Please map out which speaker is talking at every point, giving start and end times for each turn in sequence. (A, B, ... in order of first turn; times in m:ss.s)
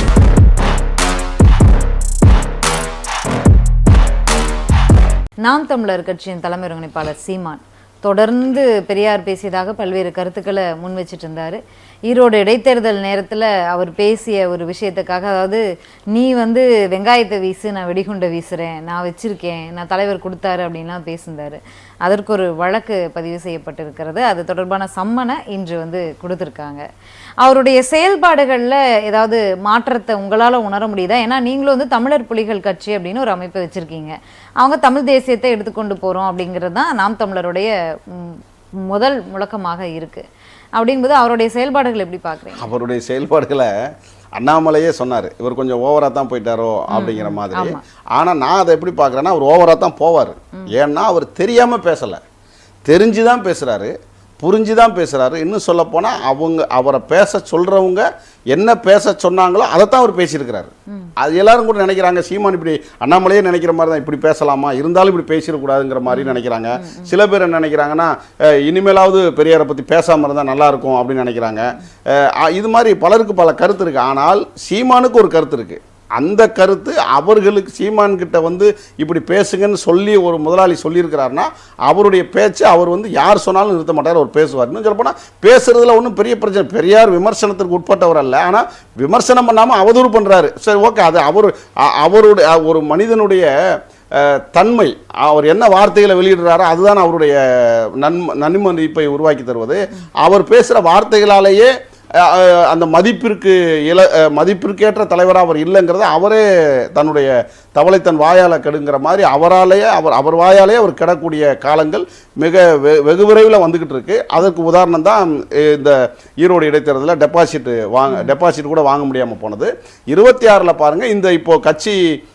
0:05.4-0:26.8 A
0:27.4-0:40.2 A
0:40.8-0:42.7 A
0:42.6-0:43.7 B
0:44.4-0:52.2 B
0:46.9-0:47.8 A
0:52.9-1:33.5 B
1:06.1-1:07.1 A
1:34.1-2:02.0 B